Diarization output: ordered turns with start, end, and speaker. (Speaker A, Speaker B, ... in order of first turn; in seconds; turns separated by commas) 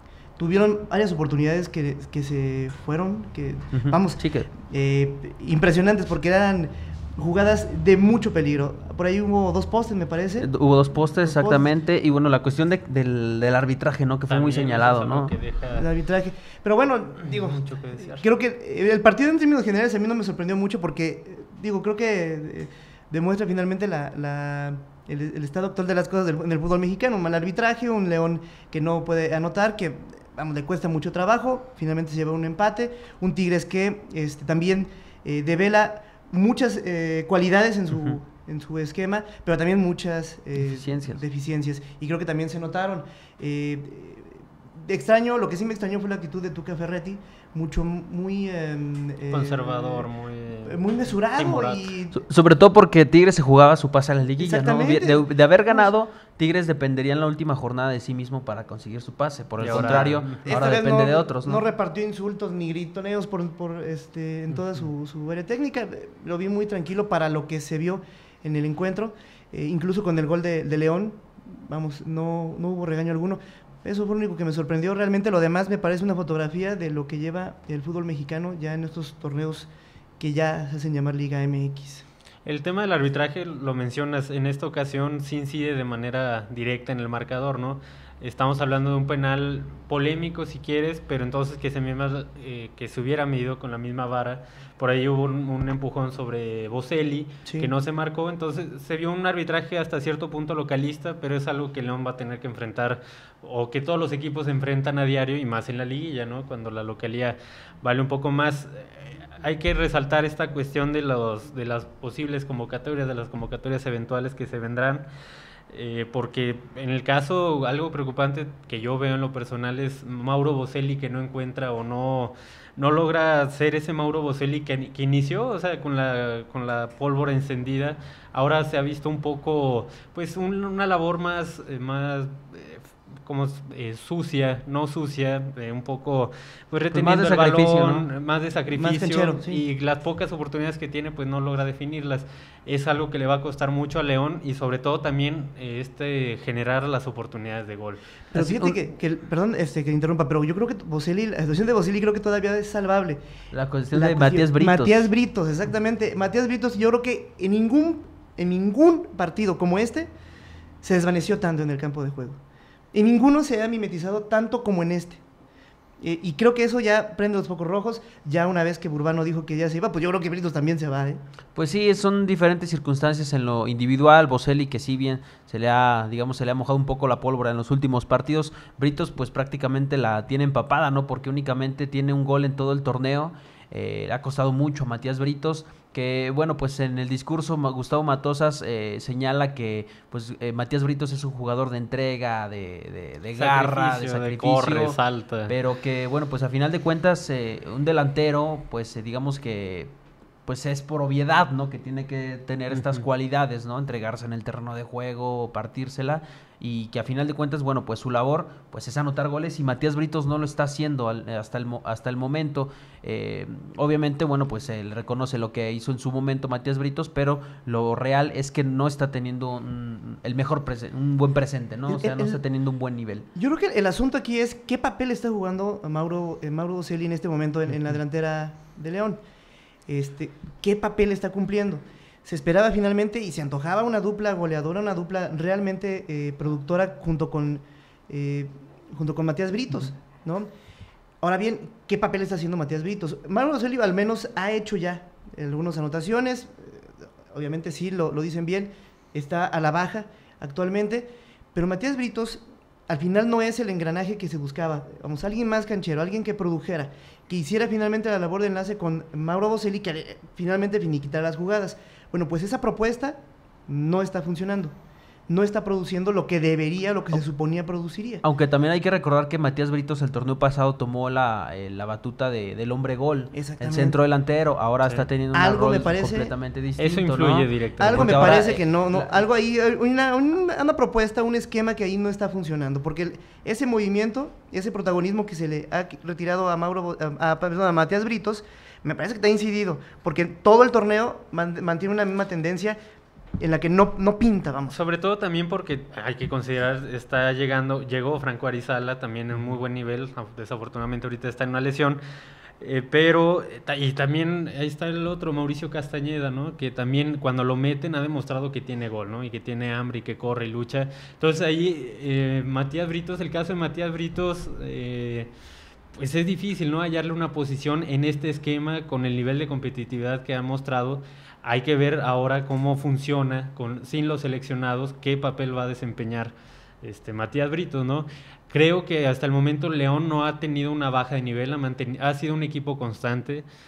Speaker A: 0.4-10.5, Speaker B: 3.7-4.5, Speaker B: 10.4-15.3, Speaker A: 11.2-11.7, Speaker C: 14.3-15.9, Speaker A: 15.7-50.1, Speaker C: 17.2-18.3, Speaker B: 40.6-41.2, Speaker C: 49.3-51.9, Speaker A: 50.6-52.2, Speaker B: 52.1-61.7, Speaker A: 54.4-55.9, Speaker C: 59.6-60.6, Speaker A: 59.7-82.0, Speaker C: 82.5-115.1, Speaker A: 97.5-97.7, Speaker C: 115.7-148.8, Speaker B: 136.9-138.1, Speaker A: 138.7-139.6, Speaker A: 148.3-153.2, Speaker B: 153.5-155.1, Speaker A: 153.9-160.1, Speaker A: 160.8-162.4, Speaker A: 162.9-165.2, Speaker A: 166.0-171.2, Speaker B: 171.6-199.9, Speaker C: 193.3-195.6, Speaker B: 200.5-223.3, Speaker C: 202.7-203.1, Speaker A: 221.9-222.4, Speaker A: 223.3-229.2, Speaker A: 229.9-240.5, Speaker A: 241.2-264.7, Speaker A: 265.3-268.2, Speaker B: 268.2-279.1, Speaker A: 273.3-274.0, Speaker A: 275.3-276.3, Speaker C: 276.8-278.5, Speaker A: 277.8-292.8, Speaker A: 293.4-294.8, Speaker C: 294.7-302.0, Speaker C: 302.6-315.3, Speaker C: 315.9-333.5